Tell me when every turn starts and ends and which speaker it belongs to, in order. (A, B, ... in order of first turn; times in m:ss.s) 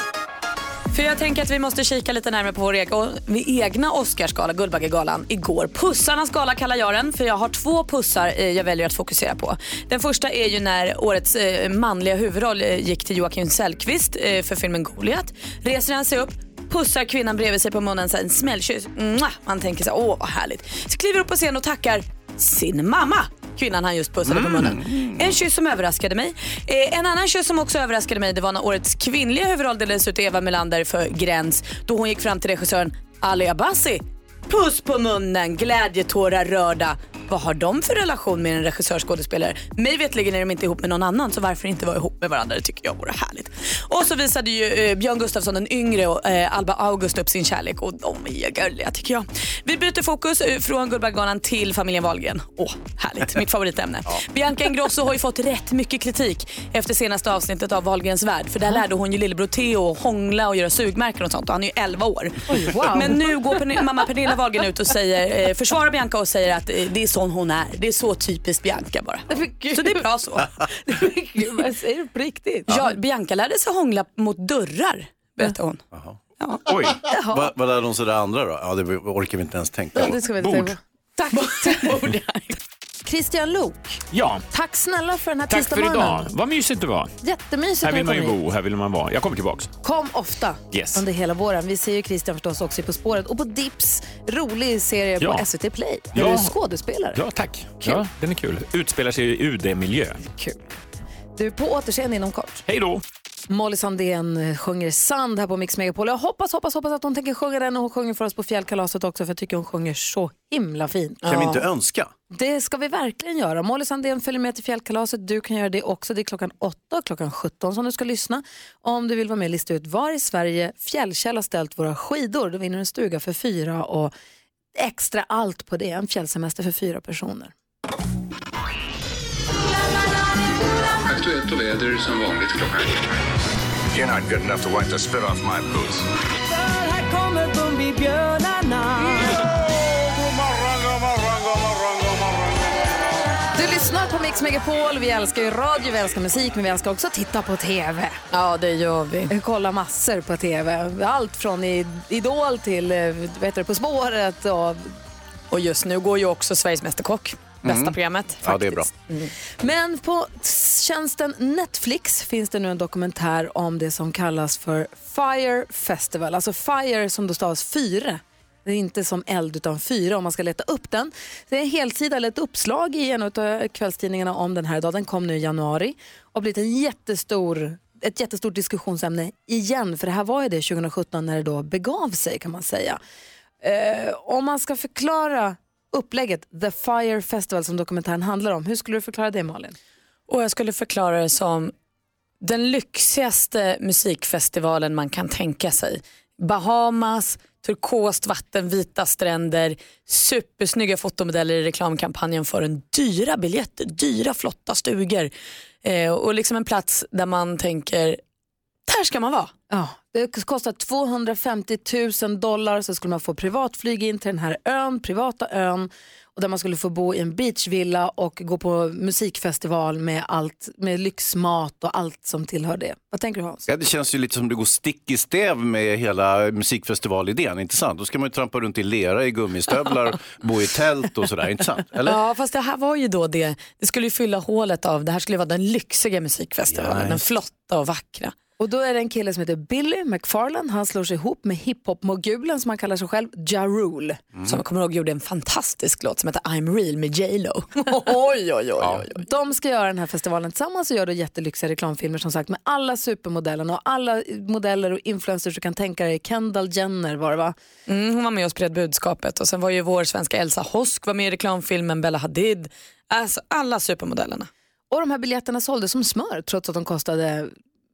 0:00.9-1:10.5 A
0:24.3-0:25.4 B
1:02.5-1:03.4 C
1:09.3-1:10.0 C
1:10.8-1:12.7 C
1:12.7-1:15.8 A
1:15.9-1:16.2 B
1:16.7-1:17.0 D
1:17.1-1:17.5 C
1:17.3-1:20.2 B
1:20.0-1:24.0 C
1:20.4-1:20.7 D
1:24.1-1:24.4 D
1:24.5-1:26.3 C
1:25.5-1:27.2 D
1:27.2-1:28.4 C
1:27.8-1:29.7 D
1:29.8-1:37.2 C
1:30.7-1:31.0 D
1:35.2-1:35.5 D
1:36.1-1:36.5 D
1:37.1-1:40.2 D
1:40.2-1:40.8 C
1:41.4-1:42.6 C
1:42.7-1:43.0 D
1:43.5-1:51.2 C
1:51.2-1:51.6 A
1:51.3-1:52.1 B
1:52.3-2:04.1 C
2:04.8-2:07.5 C
2:11.0-2:13.1 E
2:13.9-2:16.1 E
2:16.5-2:19.4 F
2:23.5-2:28.2 C
2:28.3-2:29.3 A
2:29.3-2:34.9 C
2:35.5-2:39.3 A
2:37.6-2:38.9 B
2:39.6-3:03.0 C
3:03.6-3:09.8 C
3:10.3-3:11.7 A
3:12.4-3:25.3 A
3:25.8-3:28.2 A
3:28.9-3:29.5 A
3:29.7-3:43.7 C
3:43.7-3:52.2 B
3:52.0-3:58.3 A
3:56.7-3:57.2 B
3:58.6-4:04.2 C
4:04.3-4:04.6 B
4:04.4-4:09.2 A
4:08.8-4:09.1 B
4:09.2-4:17.6 C
4:17.9-4:24.5 A
4:24.9-4:27.5 C